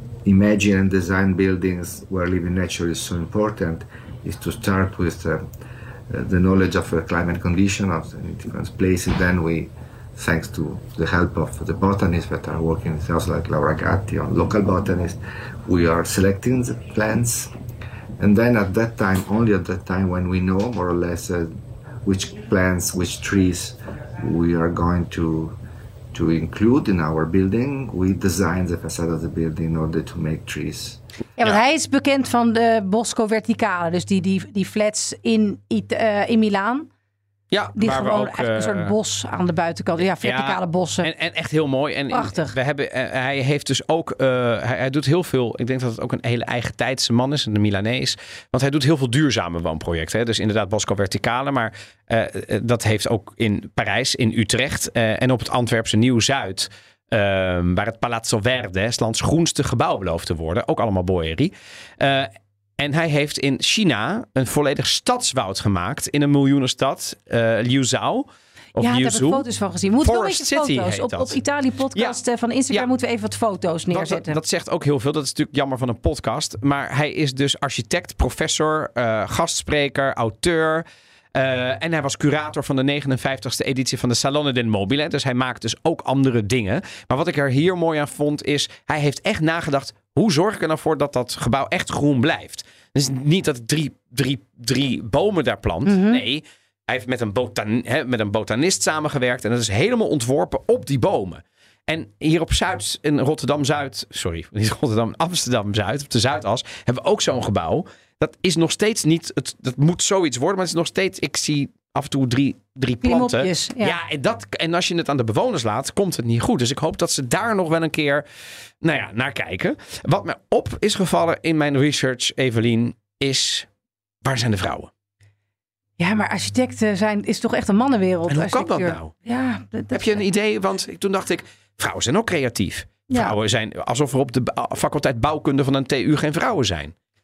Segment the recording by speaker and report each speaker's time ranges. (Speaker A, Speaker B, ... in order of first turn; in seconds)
Speaker A: 0.2-5.5, 6.1-17.5, 18.2-25.6, 26.1-31.0
Speaker B: 31.4-36.9, 37.8-41.1, 42.1-42.5, 68.8-74.4, 95.8-96.2, 113.0-114.0, 126.0-130.2, 133.1-133.3
Speaker C: 37.5-38.9, 40.2-69.5, 70.0-71.4, 73.9-118.2, 118.8-123.7, 124.2-124.9, 128.3-129.1, 129.9-136.9